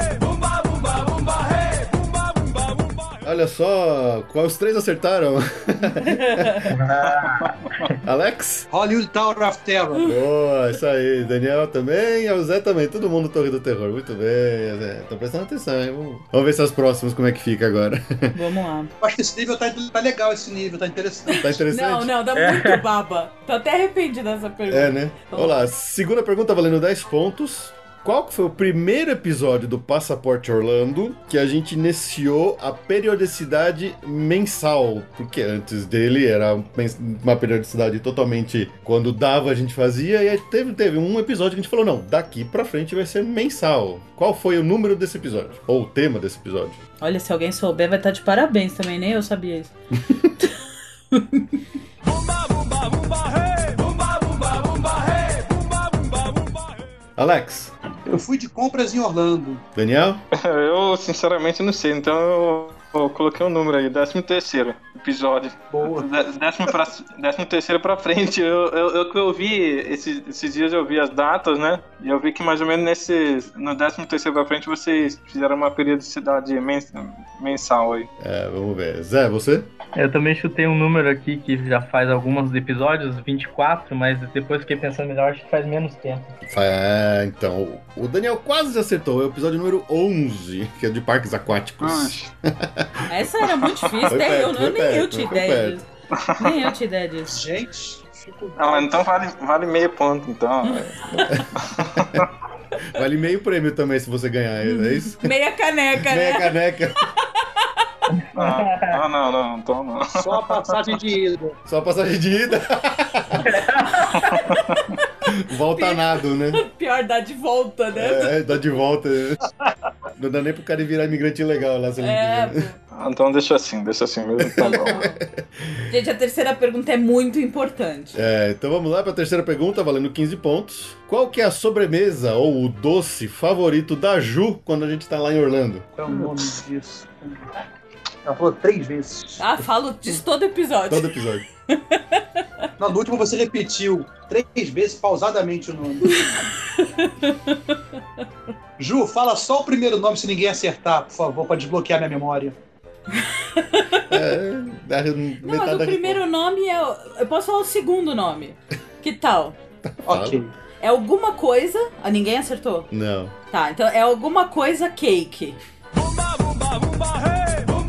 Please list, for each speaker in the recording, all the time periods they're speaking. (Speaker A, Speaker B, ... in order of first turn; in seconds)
Speaker A: 3.2-6.7, 8.0-8.7, 10.0-18.4, 21.4-22.1, 24.7-46.8, 57.2-57.7, 59.7-60.2, 78.2-79.7, 86.5-93.0, 94.1-95.8, 101.3-102.2, 102.9-105.3, 105.9-107.1, 111.7-113.5, 115.3-116.6, 117.9-119.4, 120.2-122.7, 124.6-125.8, 128.1-135.9, 140.9-141.4, 154.1-156.2, 159.8-160.4, 162.9-163.3
Speaker B: 6.0-6.7, 18.3-18.9, 21.3-25.7, 47.0-49.7, 51.1-51.6, 93.1-97.4, 104.6-106.6, 107.2-107.7, 115.7-118.3, 122.0-122.8, 124.7-125.2, 125.9-128.2, 139.4-141.2, 141.7-142.4, 146.1-147.8, 153.1-154.2, 155.4-159.6, 160.8-162.9, 163.5-165.6
Speaker C: 6.7-7.9, 22.3-22.8, 79.9-86.3, 108.1-109.0, 113.4-114.5
Speaker D: 7.0-7.9, 60.3-78.1, 91.8-92.3, 93.6-94.1, 96.2-96.6, 98.6-102.3, 108.3-110.9, 114.1-114.9, 122.9-125.0
Speaker E: 8.7-10.1, 19.0-21.5, 58.0-59.6, 65.7-66.1, 97.3-99.0, 110.1-111.5, 135.9-137.4, 138.2-139.4, 142.8-146.3, 148.8-152.6, 160.1-160.5